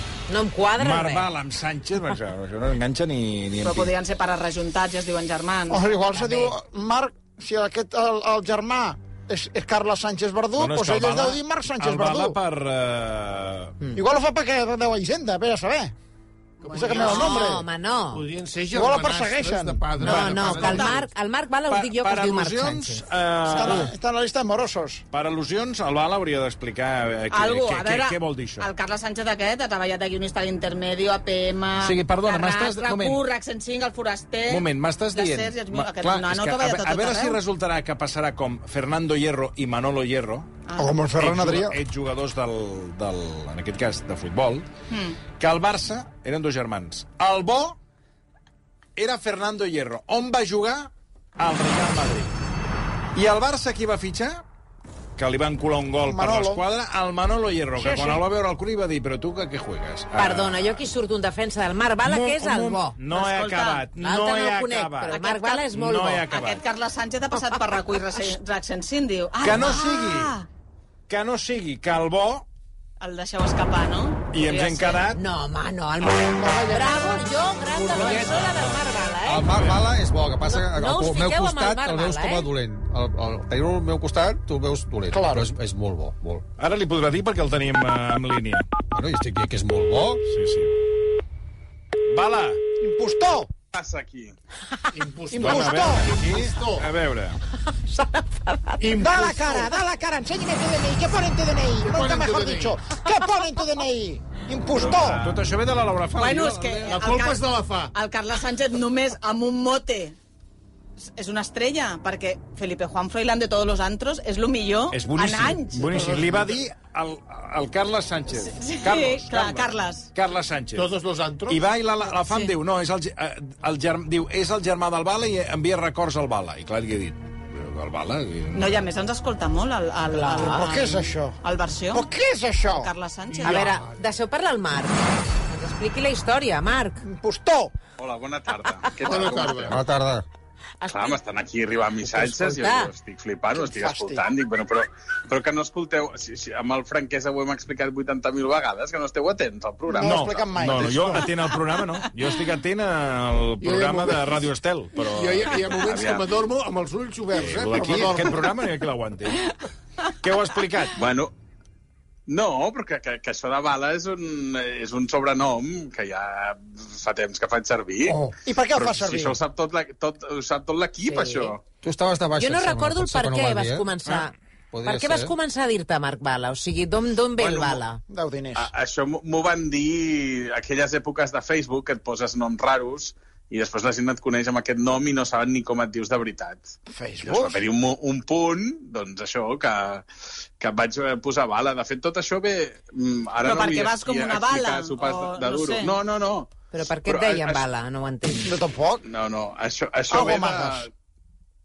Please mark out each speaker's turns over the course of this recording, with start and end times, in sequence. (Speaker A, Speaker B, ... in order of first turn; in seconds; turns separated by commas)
Speaker A: 0.3-1.3, Speaker B: 0.8-3.9, Speaker C: 3.6-5.8, Speaker D: 5.7-12.4, Speaker A: 6.1-6.5, Speaker B: 10.6-13.8, Speaker D: 13.9-15.9, Speaker C: 16.6-17.5, Speaker E: 16.6-17.4, Speaker D: 16.7-17.6, Speaker A: 16.9-18.3, Speaker E: 18.1-21.1, Speaker D: 18.7-19.9, Speaker A: 20.0-23.0, Speaker C: 20.6-20.9, Speaker B: 21.7-23.9, Speaker D: 23.4-25.0, Speaker A: 23.6-23.9, Speaker B: 25.1-28.7, Speaker C: 27.3-37.4, Speaker B: 31.8-33.2, Speaker B: 34.5-40.5, Speaker C: 40.6-41.0, Speaker D: 40.8-41.8, Speaker B: 41.2-44.6, Speaker C: 44.9-45.2, Speaker B: 45.4-47.8, Speaker B: 49.0-52.3, Speaker B: 53.1-54.4, Speaker B: 55.2-60.8, Speaker D: 56.0-56.6, Speaker D: 57.8-58.2, Speaker A: 60.1-63.0, Speaker B: 62.0-65.2, Speaker C: 63.1-63.8, Speaker A: 64.0-66.2, Speaker C: 65.1-65.6, Speaker B: 65.7-66.6, Speaker C: 66.3-70.5, Speaker B: 69.4-70.3, Speaker B: 71.1-72.5, Speaker C: 73.0-75.0, Speaker B: 74.3-75.2, Speaker A: 75.1-79.5, Speaker D: 76.3-78.3, Speaker F: 78.3-86.4, Speaker B: 79.5-79.9, Speaker A: 80.4-82.5, Speaker D: 85.1-85.5, Speaker B: 86.6-88.7, Speaker F: 88.9-90.2, Speaker B: 90.3-90.7, Speaker B: 92.1-92.6, Speaker D: 92.8-93.5, Speaker G: 93.7-94.3, Speaker E: 94.9-96.9, Speaker D: 95.3-96.1, Speaker B: 95.4-97.4, Speaker A: 97.8-98.9, Speaker E: 98.8-99.7, Speaker D: 99.0-105.4, Speaker E: 101.8-102.8, Speaker B: 104.7-106.9, Speaker C: 106.2-110.2, Speaker E: 106.9-107.9, Speaker C: 111.0-115.9, Speaker B: 114.9-120.9, Speaker E: 115.9-116.6, Speaker C: 118.3-120.1, Speaker E: 120.7-121.6, Speaker B: 121.5-128.8, Speaker C: 122.2-122.5, Speaker C: 128.5-132.1, Speaker A: 130.1-130.8, Speaker D: 130.3-131.4, Speaker D: 131.9-132.9, Speaker C: 132.7-133.7, Speaker E: 133.3-134.0, Speaker A: 133.4-137.0, Speaker D: 137.0-137.7, Speaker G: 138.0-139.8, Speaker E: 139.0-139.8, Speaker F: 139.7-140.2, Speaker A: 140.8-141.2, Speaker G: 140.9-150.4, Speaker A: 142.2-142.9, Speaker D: 143.5-144.2, Speaker D: 149.9-151.3, Speaker B: 150.0-155.8, Speaker E: 153.6-158.6, Speaker G: 155.8-156.3, Speaker B: 157.3-159.5, Speaker B: 160.1-161.0, Speaker G: 160.9-161.3, Speaker G: 162.3-171.6, Speaker D: 168.3-169.4, Speaker A: 171.0-171.5, Speaker F: 171.8-173.9, Speaker A: 172.4-174.3, Speaker F: 174.7-175.3, Speaker A: 174.8-178.0, Speaker G: 177.4-177.8, Speaker D: 178.1-178.7, Speaker G: 178.5-190.1, Speaker D: 186.9-187.7, Speaker G: 190.6-197.7, Speaker C: 193.4-195.9, Speaker A: 196.7-198.6, Speaker D: 198.4-199.0, Speaker G: 199.0-200.9, Speaker D: 200.1-200.8